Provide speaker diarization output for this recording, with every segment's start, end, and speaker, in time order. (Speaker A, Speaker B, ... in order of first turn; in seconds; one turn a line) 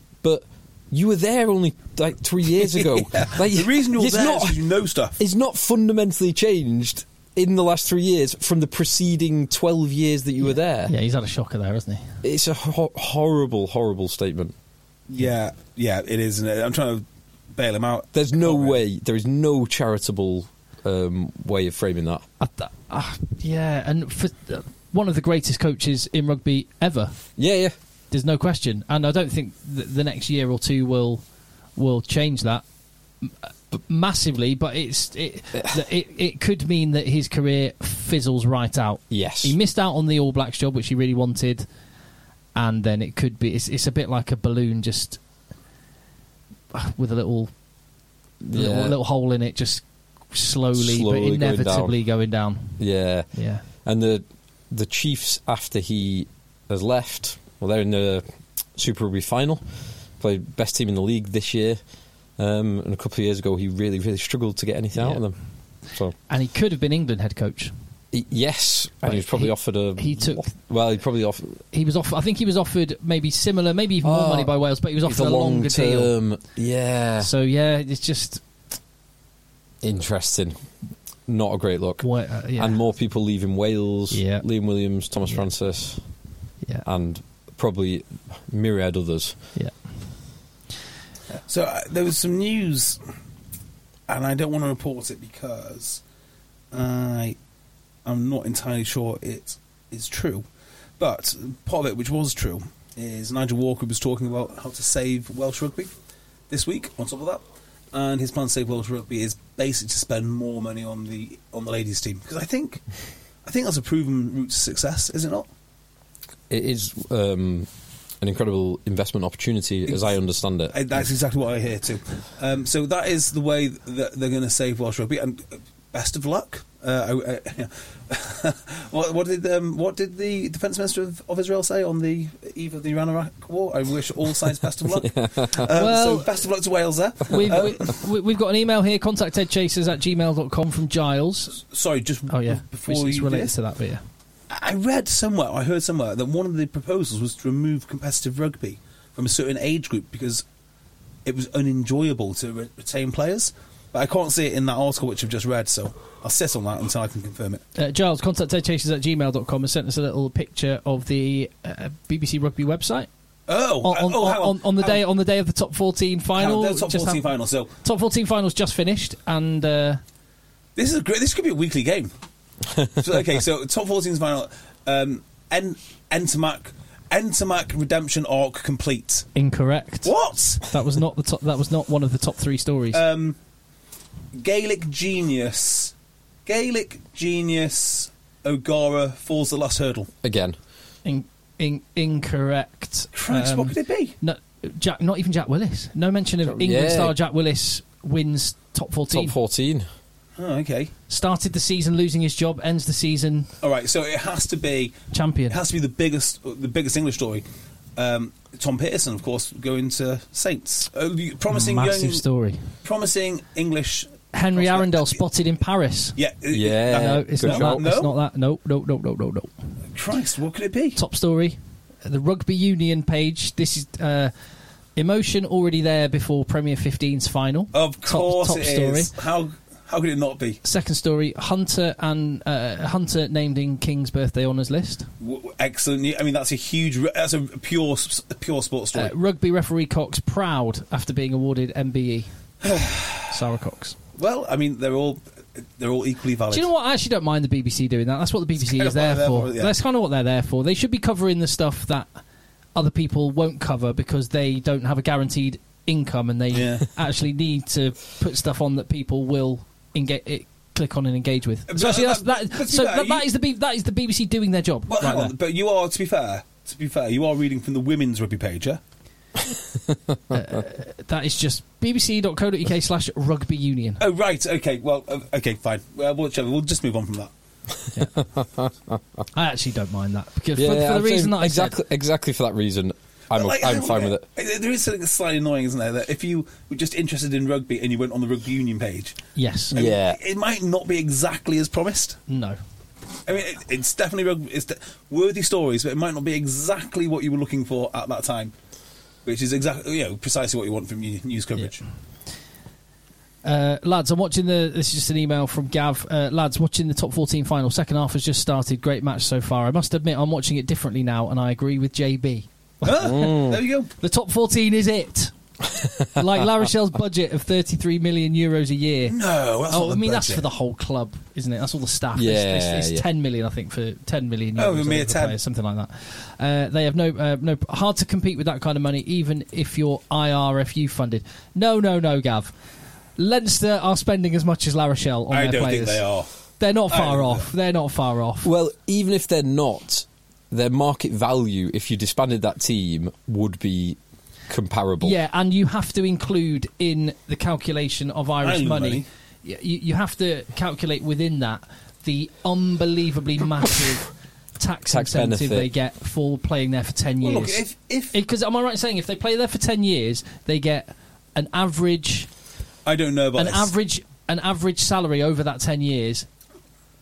Speaker A: 0.2-4.6
Speaker B: 2.6-5.2
Speaker A: 5.2-10.9
Speaker C: 10.8-12.1
Speaker A: 12.2-14.5
Speaker B: 15.1-17.0
Speaker B: 17.5-18.8
Speaker A: 18.1-22.2
Speaker C: 22.4-27.1
Speaker A: 27.4-27.7
Speaker C: 28.1-31.2
Speaker C: 31.8-32.6
Speaker C: 33.2-41.6
Speaker A: 39.1-39.5
Speaker C: 42.5-45.2
Speaker C: 46.7-47.5
Speaker A: 48.4-49.0
Speaker C: 48.5-52.8
Speaker A: 50.7-52.0
Speaker A: 52.8-59.6
Speaker C: 53.3-53.6
Speaker A: 60.2-61.8
Speaker A: 62.4-65.4
Speaker C: 65.0-65.2
Speaker C: 66.3-67.7
Speaker A: 68.1-71.6
Speaker C: 69.0-70.5
Speaker C: 71.7-76.1
Speaker A: 74.0-77.3
Speaker C: 77.2-78.4
Speaker A: 79.8-80.6
Speaker A: 81.3-86.0
Speaker C: 82.0-82.8
Speaker C: 84.1-84.4
Speaker A: 86.8-89.4
Speaker B: 91.5-93.0
Speaker B: 94.1-96.0
Speaker B: 96.7-97.3
Speaker B: 98.0-100.4
Speaker B: 101.0-105.9
Speaker B: 106.5-107.4
Speaker B: 107.9-112.8
Speaker B: 113.4-115.5
Speaker A: 116.5-117.7
Speaker A: 118.2-120.8
Speaker B: 119.9-120.1
Speaker B: 120.7-137.9
Speaker A: 135.0-135.7
Speaker C: 135.7-136.3
Speaker C: 137.3-141.6
Speaker B: 141.6-143.5
Speaker C: 142.3-144.0
Speaker B: 144.5-150.4
Speaker B: 151.2-157.6
Speaker C: 157.8-163.1
Speaker B: 163.5-165.0
Speaker C: 163.8-167.2
Speaker B: 166.3-167.7
Speaker C: 167.8-170.0
Speaker B: 170.8-172.1
Speaker B: 172.9-179.3
Speaker C: 179.3-180.1
Speaker B: 180.0-180.6
Speaker C: 180.6-183.0
Speaker B: 182.9-183.4
Speaker B: 184.3-185.9
Speaker B: 186.4-190.1
Speaker A: 190.2-190.6
Speaker C: 191.0-199.3
Speaker B: 193.1-194.1
Speaker A: 196.4-197.2
Speaker A: 199.1-199.9
Speaker B: 200.4-200.9
Speaker C: 201.1-203.5
Speaker B: 203.6-204.9
Speaker C: 205.1-205.6
Speaker B: 205.5-207.4
Speaker B: 207.9-212.2
Speaker C: 211.5-212.7
Speaker B: 212.8-215.2
Speaker C: 214.3-216.2
Speaker B: 216.2-218.1
Speaker A: 216.5-217.8
Speaker C: 216.9-219.5
Speaker B: 219.9-221.0
Speaker C: 220.9-224.3
Speaker C: 224.9-229.1
Speaker B: 227.7-230.6
Speaker C: 230.6-235.1
Speaker B: 235.2-239.1
Speaker C: 238.9-242.3
Speaker B: 242.6-243.3
Speaker C: 243.3-243.9
Speaker B: 244.2-246.7
Speaker C: 246.5-252.1
Speaker B: 248.6-249.7
Speaker C: 252.7-265.3
Speaker B: 256.5-256.9
Speaker B: 261.7-263.2
Speaker B: 264.9-268.8
Speaker C: 270.3-274.0
Speaker B: 274.0-277.3
Speaker A: 278.1-279.0
Speaker C: 279.3-281.8
Speaker A: 280.5-284.2
Speaker B: 283.3-289.2
Speaker C: 289.4-289.8
Speaker A: 289.7-290.2
Speaker B: 289.7-292.2
Speaker C: 292.3-292.6
Speaker B: 293.2-298.5
Speaker B: 299.2-301.8
Speaker C: 303.4-313.2
Speaker B: 312.8-313.9
Speaker A: 313.0-313.6
Speaker C: 314.0-315.3
Speaker A: 315.7-316.1
Speaker C: 316.1-319.1
Speaker B: 319.1-320.5
Speaker C: 319.7-332.5
Speaker A: 322.1-323.0
Speaker B: 324.6-325.4
Speaker C: 333.2-336.0
Speaker B: 335.3-336.3
Speaker C: 336.6-338.5
Speaker B: 336.9-337.5
Speaker A: 338.4-345.1
Speaker C: 345.0-357.6
Speaker B: 348.4-349.1
Speaker A: 354.9-355.7
Speaker B: 357.2-358.2
Speaker C: 358.1-362.3
Speaker B: 362.9-363.7
Speaker C: 363.4-366.3